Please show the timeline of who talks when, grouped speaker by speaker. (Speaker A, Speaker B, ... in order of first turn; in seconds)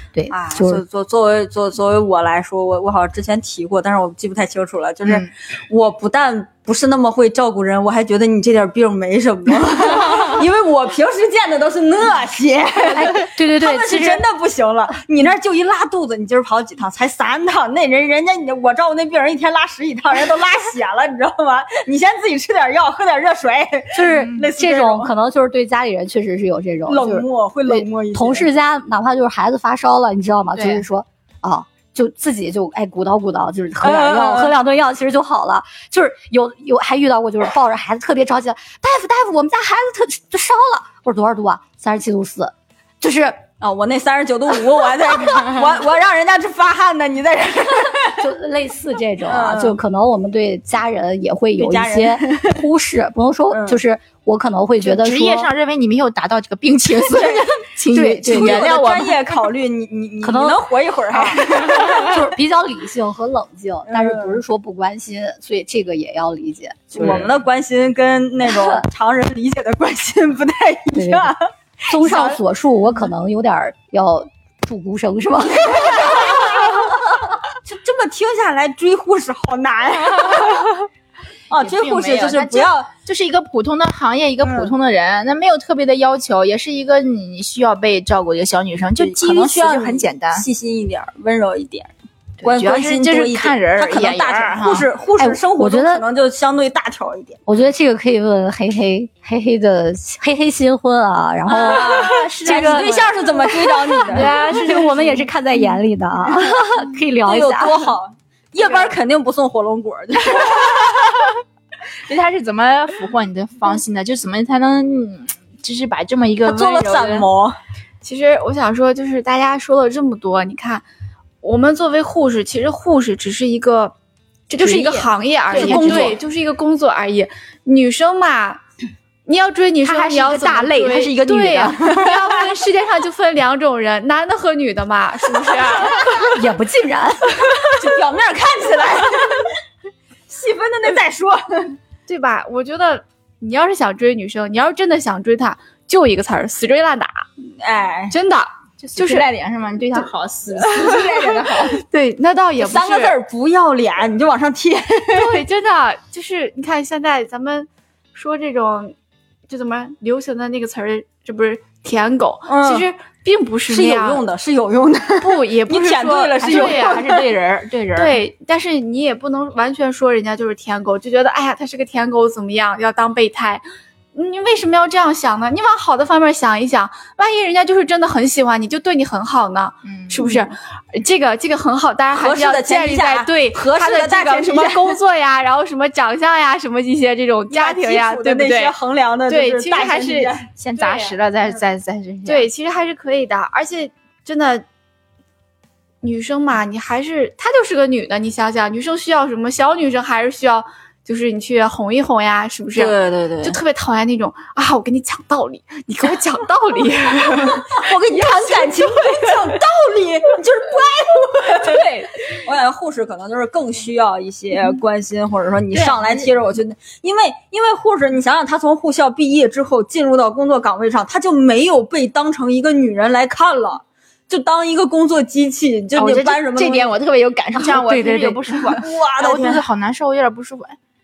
Speaker A: 0.1-0.8, 12.9-14.2, 23.9-43.4, 48.2-55.5, 57.9-58.7, 60.2-60.6, 61.2-67.2, 68.5-68.8, 70.9-71.3, 71.9-76.9, 95.2-96.0, 97.5-103.0, 103.8-107.9, 136.2-137.3, 227.6-228.7
Speaker B: 0.3-25.1, 26.9-28.5, 33.8-34.5, 43.6-48.3, 49.2-49.8, 51.6-52.6, 53.5-53.8, 57.1-57.6, 58.2-62.2, 63.9-64.4, 66.9-72.4, 75.7-77.0, 77.6-80.9, 81.5-82.9, 84.4-84.7, 89.0-97.5, 101.5-104.7, 107.2-111.2, 116.4-117.6, 125.5-126.2, 130.8-132.4, 137.4-139.6, 140.3-141.8, 147.6-148.1, 150.6-151.7, 152.6-155.4, 162.5-162.9, 163.7-167.3, 182.1-185.0, 187.5-190.5, 202.8-203.6, 207.5-226.9, 228.7-229.6
Speaker C: 5.0-5.3, 30.6-30.8, 54.8-59.3, 61.3-62.0, 81.5-90.5, 92.4-94.9, 101.6-103.1, 104.2-104.8, 110.5-111.2, 112.0-117.3, 124.6-126.2, 129.8-131.5, 148.8-151.8, 166.4-168.2, 179.8-180.5, 190.6-192.5, 225.9-230.8
Speaker D: 102.2-103.1, 104.2-105.0, 118.0-120.8, 121.4-124.0, 124.5-128.6, 129.3-136.4, 142.1-147.3, 148.1-149.3, 151.7-153.2, 155.1-158.9, 159.5-164.2, 165.2-167.0, 168.0-173.6, 174.1-188.8, 189.3-191.2, 192.2-194.7, 196.0-207.9, 211.5-212.3, 215.7-216.3